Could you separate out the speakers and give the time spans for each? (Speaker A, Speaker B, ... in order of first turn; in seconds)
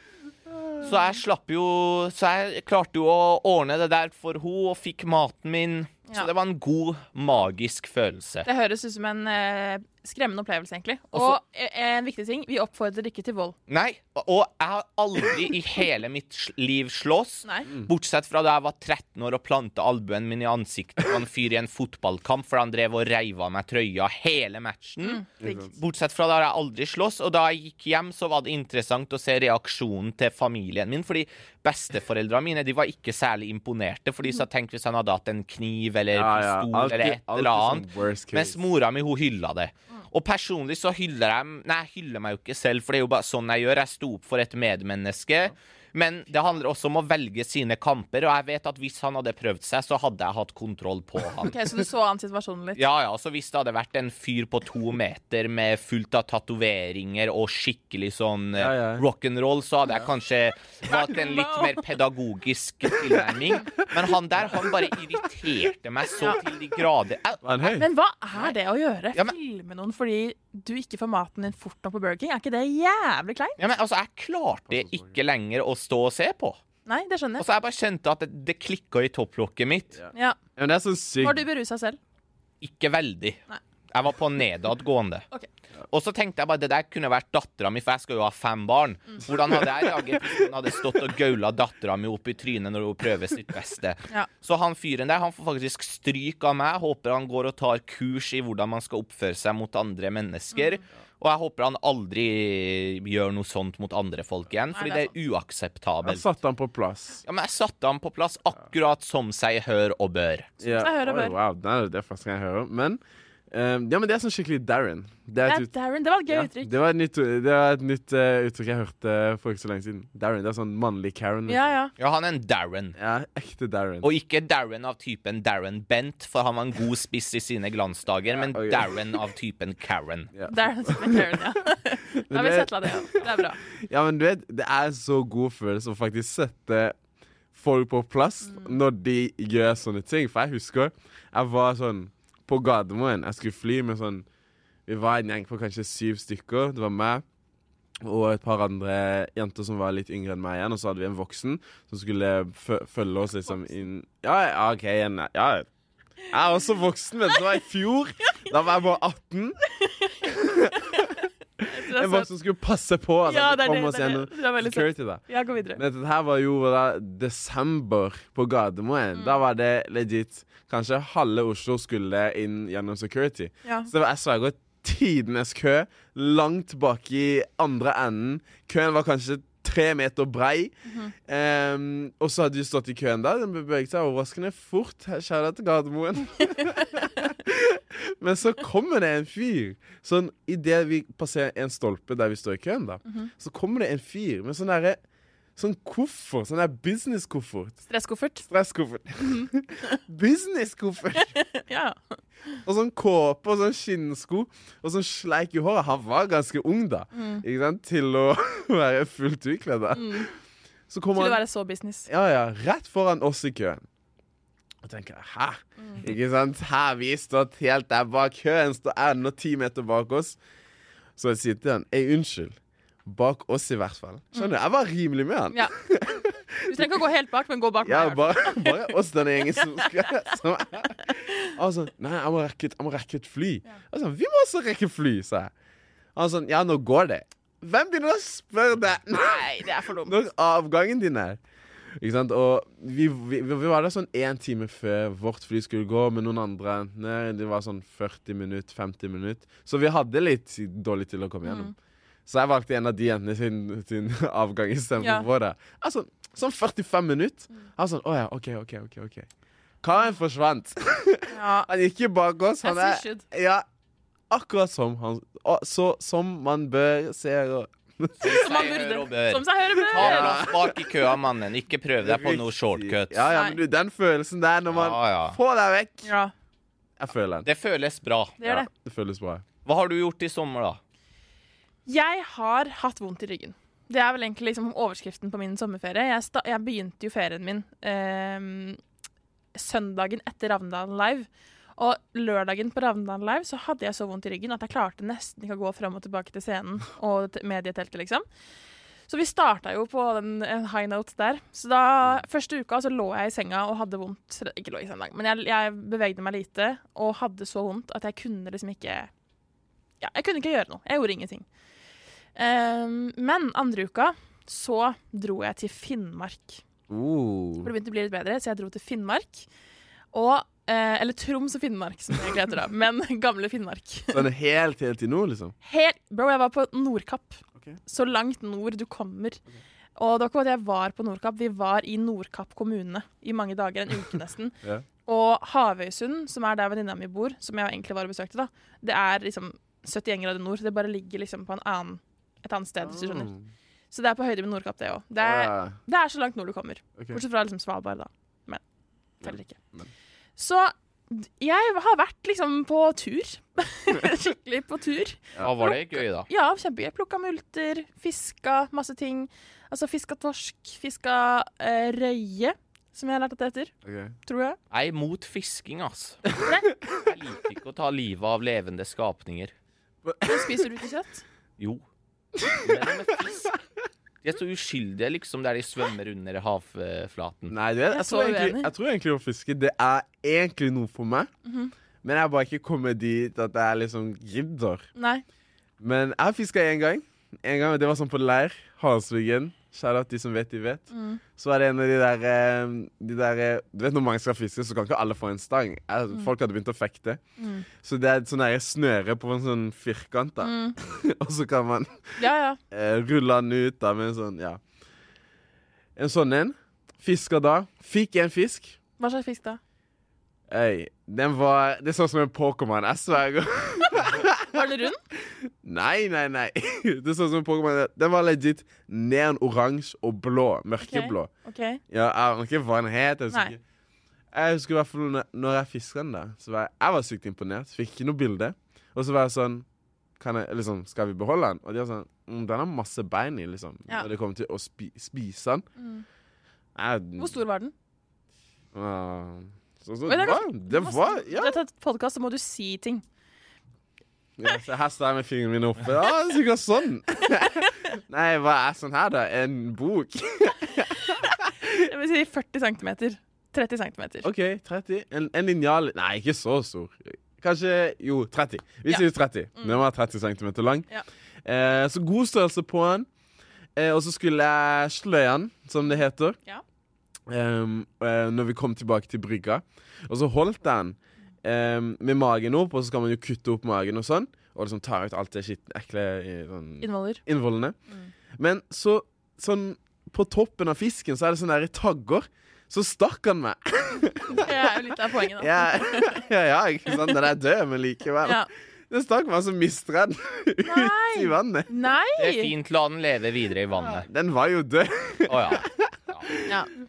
Speaker A: 0.8-8.4, 11.1-11.4, 13.7-51.5, 52.8-67.8, 73.6-76.6, 77.4-80.0, 82.6-83.4, 83.9-85.3, 85.9-106.2, 107.2-110.5, 122.0-123.0, 124.0-130.3, 268.2-273.3, 274.7-275.4, 277.4-278.4, 279.6-280.8, 355.4-356.3, 364.7-366.3, 366.9-369.5, 372.5-373.6, 374.2-377.5, 492.2-494.1, 495.3-496.4
Speaker B: 8.4-13.5, 25.0-25.6, 51.4-52.8, 60.9-61.8, 67.7-73.6, 76.8-77.4, 81.2-82.0, 104.7-105.1, 110.6-111.3, 115.4-116.7, 121.5-121.9, 130.5-133.6, 138.4-138.8, 159.7-162.3, 163.2-165.8, 173.6-173.9, 180.8-181.1, 197.9-198.5, 199.2-200.0, 201.1-202.6, 207.1-207.4, 209.9-210.3, 211.1-212.1, 226.7-228.8, 229.6-230.2, 231.0-231.5, 239.2-240.1, 251.4-251.7, 255.0-255.3, 261.3-261.7, 262.6-263.2, 268.2-270.5, 273.3-273.6, 276.0-276.3, 278.4-278.7, 281.9-288.8, 289.5-298.2, 299.1-309.1, 310.0-311.4, 312.3-316.6, 317.6-319.5, 320.1-324.2, 325.6-329.4, 329.9-334.5, 335.1-343.3, 343.9-348.6, 349.2-349.6, 350.4-363.7, 364.2-364.6, 366.4-366.7, 370.2-371.2, 377.9-378.7, 381.4-381.7, 384.9-385.2, 390.9-391.2, 397.4-397.7, 400.4-400.8, 402.2-402.6, 409.0-409.6, 414.5-415.0, 420.8-421.8, 435.8-436.0, 437.2-437.7, 440.1-443.0, 447.4-447.8, 451.1-454.3, 476.8-477.2, 484.3-486.2, 488.2-488.5, 490.6-492.5, 496.4-496.7
Speaker C: 25.4-25.7, 36.1-38.6, 58.6-59.0, 64.3-64.8, 67.4-67.9, 74.7-75.2, 80.0-81.4, 106.0-107.2, 110.6-115.7, 116.3-121.6, 123.0-124.1, 128.3-129.2, 130.3-131.4, 132.3-137.0, 137.5-144.2, 144.9-147.2, 148.0-155.7, 156.3-159.6, 160.2-165.2, 165.8-180.7, 181.3-195.0, 195.6-197.8, 198.5-201.3, 202.6-210.2, 210.9-211.4, 212.1-213.8, 214.8-220.4, 221.2-226.9, 227.8-235.5, 236.1-239.4, 240.0-241.4, 242.0-251.7, 252.3-259.3, 259.8-263.6, 264.3-268.2, 269.9-271.1, 272.0-276.1, 277.0-277.5, 278.4-279.4, 316.9-317.7, 324.1-325.5, 342.8-343.5, 345.2-345.8, 349.2-349.9, 363.8-364.1, 370.0-370.7, 372.3-372.9, 377.5-381.3, 382.0-384.9, 385.8-397.2, 397.8-402.2, 402.7-404.6, 405.9-408.8, 410.5-421.3, 421.9-423.6, 424.3-429.6, 430.2-435.6, 436.8-437.4, 438.7-441.6, 444.4-451.7, 454.2-460.9, 461.4-463.1, 463.8-466.4, 467.3-477.8, 478.4-491.7, 493.8-496.5